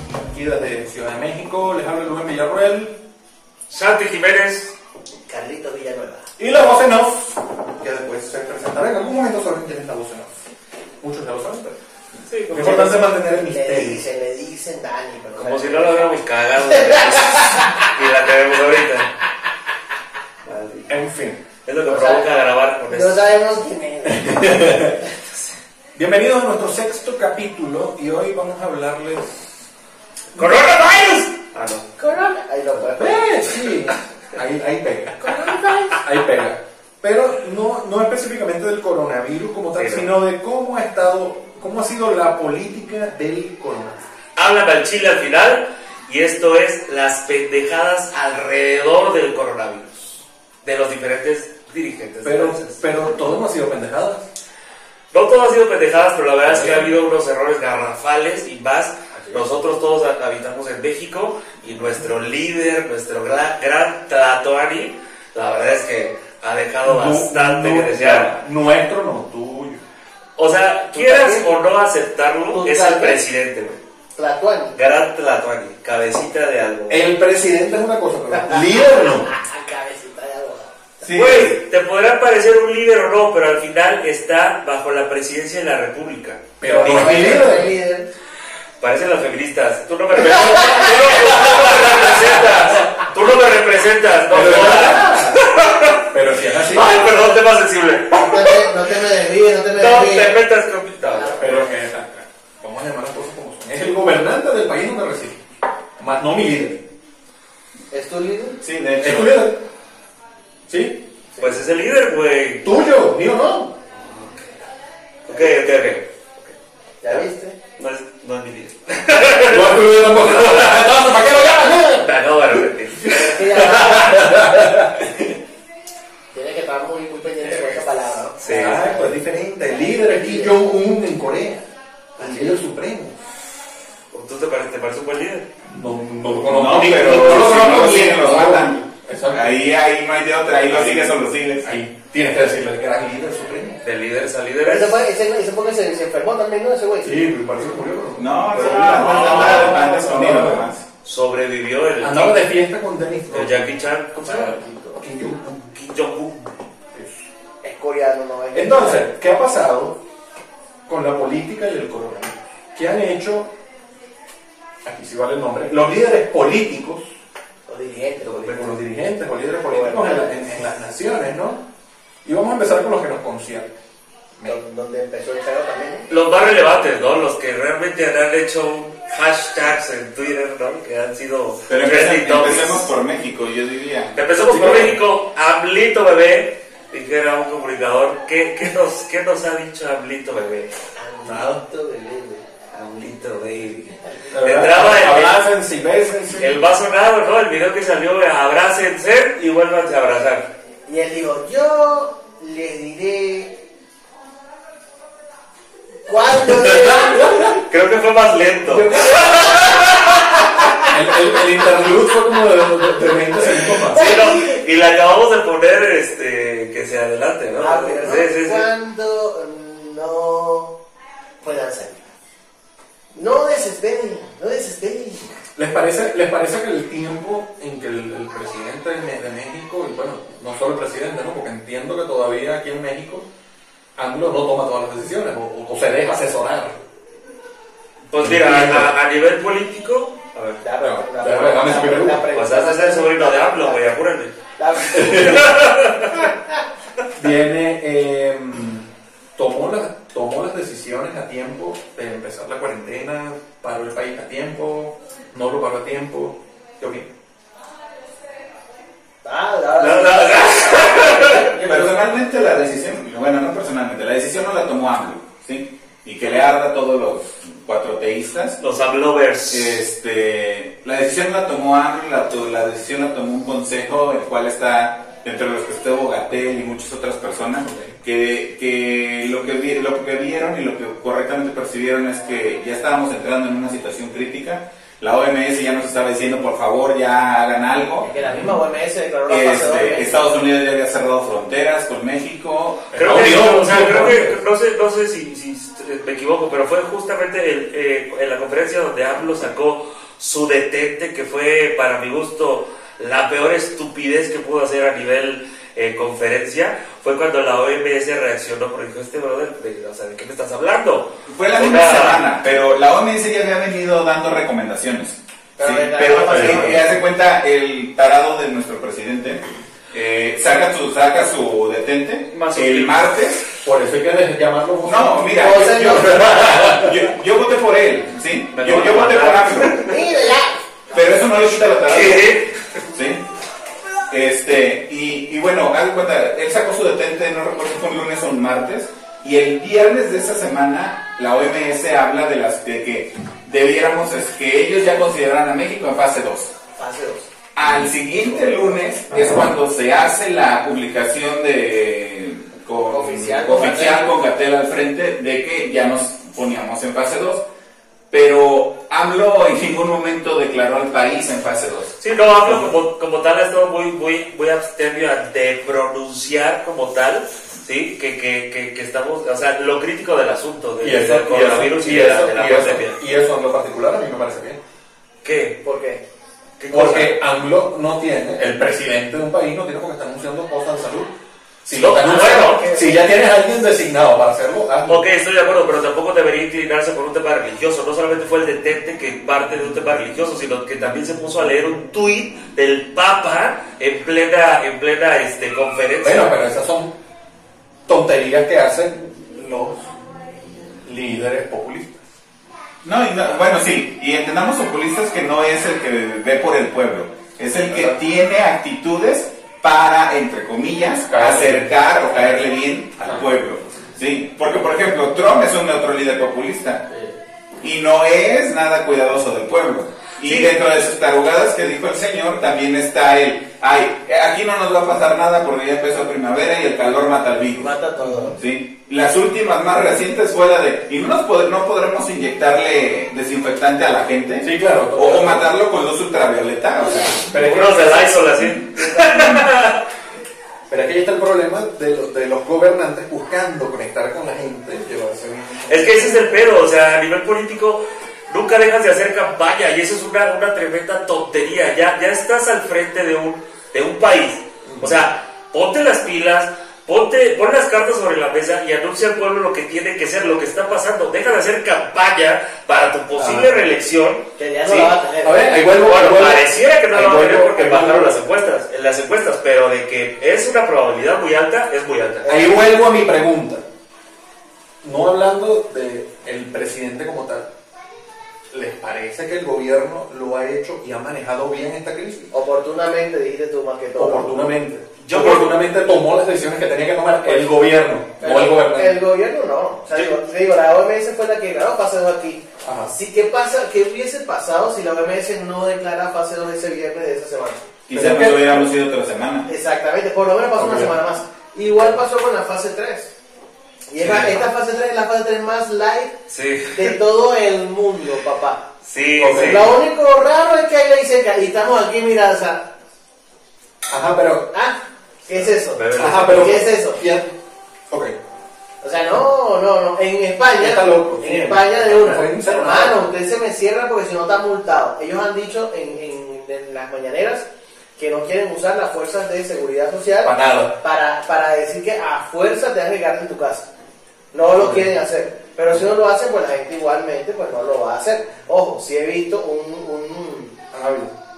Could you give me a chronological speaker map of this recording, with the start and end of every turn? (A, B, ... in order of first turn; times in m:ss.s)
0:00.3-0:03.0 A
0:03.7-0:04.8 B
0:05.3-0:06.3 C
0:06.4-0:10.3 A
0:11.0-0:11.8 A
0:12.3-0:12.9 B
0:12.5-0:14.0 A
0:12.6-0:17.9 C
0:15.4-0:19.1 B
0:20.4-0:21.0 B
0:20.9-0:21.4 A
0:21.6-0:23.2 B
0:21.9-0:22.2 C
0:22.9-0:24.9 C
0:24.1-0:25.0 A
0:26.0-0:29.6 A
0:30.4-0:31.8 B
0:32.0-0:33.4 C
0:33.0-0:44.1 A
0:39.8-0:40.1 B
0:44.4-0:53.0 B
0:52.2-0:54.3 A
0:55.1-1:08.4 B
0:56.5-0:56.9 A
1:06.8-1:09.8 A
1:10.4-1:13.8 B
1:10.9-1:11.5 C
1:12.5-1:13.2 C
1:14.2-1:14.8 C
1:14.8-1:17.0 B
1:16.9-1:19.3 A
1:18.3-1:20.8 C
1:21.0-1:21.6 D
1:21.1-1:27.5 B
1:26.6-1:27.7 A
1:26.6-1:28.1 C
1:28.8-1:36.1 B
1:30.2-1:32.7 A
1:30.3-1:32.1 C
1:34.3-1:35.4 A
1:36.1-1:37.1 A
1:36.7-1:38.9 B
1:38.1-1:40.4 C
1:39.8-1:41.6 B
1:41.1-1:41.7 C
1:41.4-1:45.4 A
1:46.0-1:46.8 A
1:47.9-1:48.6 C
1:48.6-1:49.4 D
1:49.0-1:49.6 A
1:50.7-1:51.0 A
1:51.4-1:51.6 C
1:51.4-1:52.7 B
1:52.6-1:53.7 A
1:54.0-1:54.6 B
1:55.3-1:55.6 C
1:55.3-1:56.6 B
1:57.0-1:57.6 C
1:57.8-2:01.0 B
1:59.5-2:02.1 A
2:01.6-2:04.0 B
2:03.0-2:04.7 C
2:03.2-2:05.4 A
2:06.3-2:10.6 C
2:08.4-2:08.8 B
2:08.5-2:13.2 A
2:12.2-2:12.6 C
2:14.1-2:15.4 B
2:15.7-2:19.6 A
2:16.5-2:18.8 D
2:19.3-2:21.7 D
2:20.7-2:21.1 B
2:21.6-2:23.8 A
2:23.8-2:25.0 B
2:24.7-2:27.2 C
2:27.0-2:30.7 A
2:28.2-2:30.8 D
2:28.6-2:29.9 B
2:28.6-2:30.3 C
2:31.0-2:32.5 B
2:32.0-2:33.7 A
2:33.3-2:34.6 B
2:34.2-2:35.0 C
2:34.3-2:35.6 A
2:35.5-2:36.6 B
2:36.9-2:37.2 A
2:37.6-2:39.1 C
2:38.5-2:40.0 A
2:40.9-2:43.5 A
2:44.8-2:47.0 A
2:47.7-2:48.8 C
2:48.2-2:51.6 A
2:49.7-2:50.6 C
2:52.2-2:53.7 A
2:54.4-2:56.1 C
2:56.1-3:02.9 B
3:01.7-3:04.2 D
3:04.2-3:10.8 B
3:04.5-3:05.0 A
3:11.0-3:12.4 C
3:12.7-3:15.4 B
3:14.3-3:16.6 A
3:16.4-3:20.4 B
3:20.9-3:23.6 C
3:26.1-3:27.6 C
3:26.6-3:30.8 B
3:28.7-3:29.5 A
3:30.8-3:34.0 A
3:33.8-3:38.7 B
3:33.9-3:34.6 C
3:37.6-3:40.8 C
3:41.4-3:42.0 C
3:43.1-3:45.3 C
3:45.6-3:53.3 A
3:54.0-3:56.8 A
3:58.1-4:00.6 B
3:58.2-3:58.9 A
4:00.6-4:03.8 C
4:00.8-4:02.2 A
4:02.3-4:04.4 B
4:04.6-4:05.5 C
4:04.9-4:05.5 A
4:05.0-4:06.3 B
4:07.2-4:08.8 A
4:09.4-4:17.1 A
4:19.2-4:22.0 C
4:19.8-4:21.5 B
4:21.6-4:28.6 D
4:28.6-4:29.8 B
4:29.5-4:48.1 D
4:48.0-4:50.3 C
4:49.3-4:53.0 D
4:52.9-4:54.4 A
4:53.0-5:12.2 B
5:11.3-5:23.4 D
5:15.6-5:16.9 C
5:16.3-5:16.8 A
5:22.3-5:23.1 B
5:23.6-5:27.0 A
5:24.8-5:30.0 D
5:25.4-5:26.6 C
5:28.5-5:30.0 B
5:29.9-5:30.6 C
5:30.9-5:32.4 D
5:31.9-5:32.5 B
5:32.9-5:33.2 D
5:34.1-5:46.5 D
5:46.8-5:47.3 C
5:47.6-5:57.4 D
5:52.9-5:54.2 C
5:58.1-6:01.9 D
6:02.0-6:13.0 B
6:10.8-6:14.6 A
6:15.2-6:15.6 B
6:15.6-6:16.0 C
6:16.6-6:17.2 B
6:16.7-6:21.1 A
6:21.6-6:25.0 A
6:21.7-6:22.7 B
6:22.0-6:23.1 C
6:24.9-6:36.3 B
6:36.0-6:36.9 A
6:37.9-6:40.0 A
6:40.8-6:42.0 A
6:42.8-6:56.8 D
6:47.7-6:47.9 A
6:51.1-6:51.7 A
6:57.6-7:07.7 D
7:00.2-7:00.6 B
7:07.6-7:08.4 C
7:08.0-7:08.4 A
7:08.4-7:17.3 D
7:14.4-7:15.5 A
7:16.8-7:17.1 C
7:17.3-7:19.8 B
7:17.3-7:18.4 A
7:18.5-7:19.5 D
7:20.7-7:26.6 A
7:25.7-7:44.9 B
7:34.7-7:35.0 A
7:43.2-7:43.6 A
7:44.4-7:45.6 C
7:45.2-7:48.2 A
7:45.8-7:52.3 B
7:52.2-7:52.6 C
7:52.3-7:53.6 A
7:54.8-7:57.5 A
7:58.5-8:02.3 A
8:02.3-8:04.3 C
8:04.0-8:09.0 A
8:05.0-8:05.5 B
8:08.2-8:17.6 C
8:12.6-8:12.9 A
8:17.9-8:19.5 D
8:17.9-8:18.7 A
8:19.5-8:23.1 C
8:20.6-8:21.0 A
8:23.9-8:26.2 C
8:24.0-8:24.4 B
8:26.3-8:26.9 B
8:26.7-8:28.6 C
8:28.8-8:29.7 B
8:29.2-8:29.8 A
8:29.3-8:32.7 C
8:33.9-8:34.5 A
8:34.5-8:37.0 C
8:35.6-8:36.6 B
8:36.0-8:37.3 A
8:37.9-8:38.2 A
8:38.8-8:53.7 C
8:40.6-8:43.1 A
8:50.2-8:50.7 A
8:54.3-9:00.6 C
8:54.5-8:54.9 A
9:00.7-9:01.1 A